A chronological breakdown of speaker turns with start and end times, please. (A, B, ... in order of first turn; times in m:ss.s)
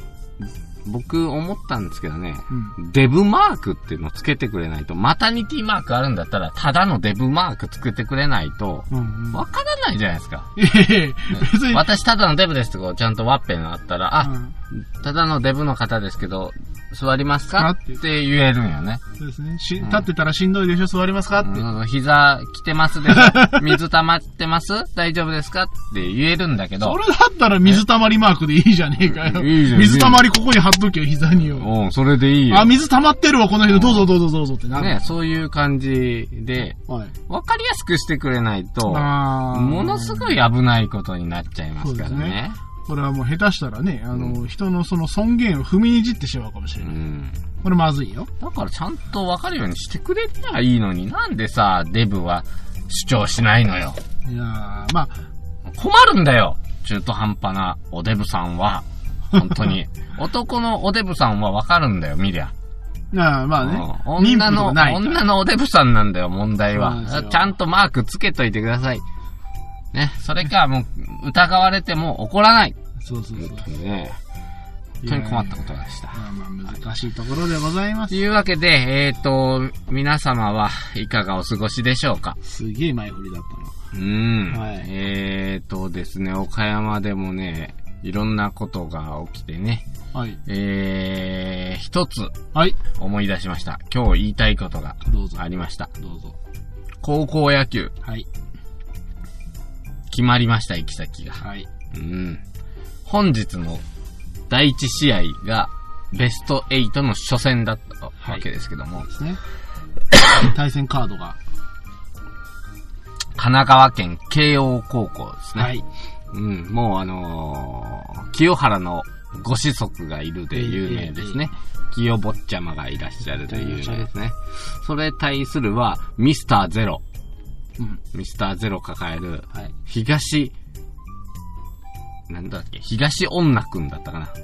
0:00.8-0:10.5 A
0:02.5-0:02.8 B
0:08.9-0:09.4 B
0:10.6-0:11.8 B
0:11.3-0:19.0 A
0:14.2-0:14.5 B
0:17.5-0:18.0 B
0:19.2-0:21.7 B
0:21.4-0:27.0 A
0:23.0-0:23.8 B
0:26.8-0:31.7 B
0:29.1-0:30.2 A
0:31.5-0:32.7 A
0:32.5-0:35.0 B
0:33.6-0:34.1 A
0:34.7-0:42.6 A
0:36.9-0:37.1 B
0:38.8-0:40.4 B
0:41.8-0:47.0 B
0:46.8-0:47.4 A
0:47.6-0:48.3 B
0:48.4-0:54.0 A
0:54.2-0:55.2 B
0:55.7-1:02.5 A
1:03.1-1:05.2 B
1:03.6-1:09.0 A
1:06.7-1:07.5 B
1:09.9-1:12.8 A
1:13.0-1:13.7 B
1:13.4-1:14.2 A
1:15.0-1:15.6 B
1:15.0-1:16.2 A
1:16.1-1:18.2 B
1:18.1-1:22.4 A
1:22.4-1:23.8 B
1:23.9-1:29.8 A
1:24.5-1:24.9 B
1:30.1-1:30.4 B
1:30.4-1:32.4 A
1:32.5-1:32.8 B
1:33.0-1:35.9 A
1:35.0-1:35.4 B
1:36.0-1:36.4 B
1:37.0-1:37.9 A
1:38.0-1:38.3 B
1:40.1-1:42.4 A
1:41.4-1:41.7 B
1:43.0-1:43.8 A
1:44.5-1:49.1 A
1:49.0-1:49.4 B
1:50.3-1:51.4 B
1:53.4-1:55.7 A
1:55.6-1:55.8 B
1:56.3-2:07.0 A
2:00.5-2:01.5 B
2:03.4-2:04.1 B
2:08.1-2:10.5 A
2:12.3-2:14.3 A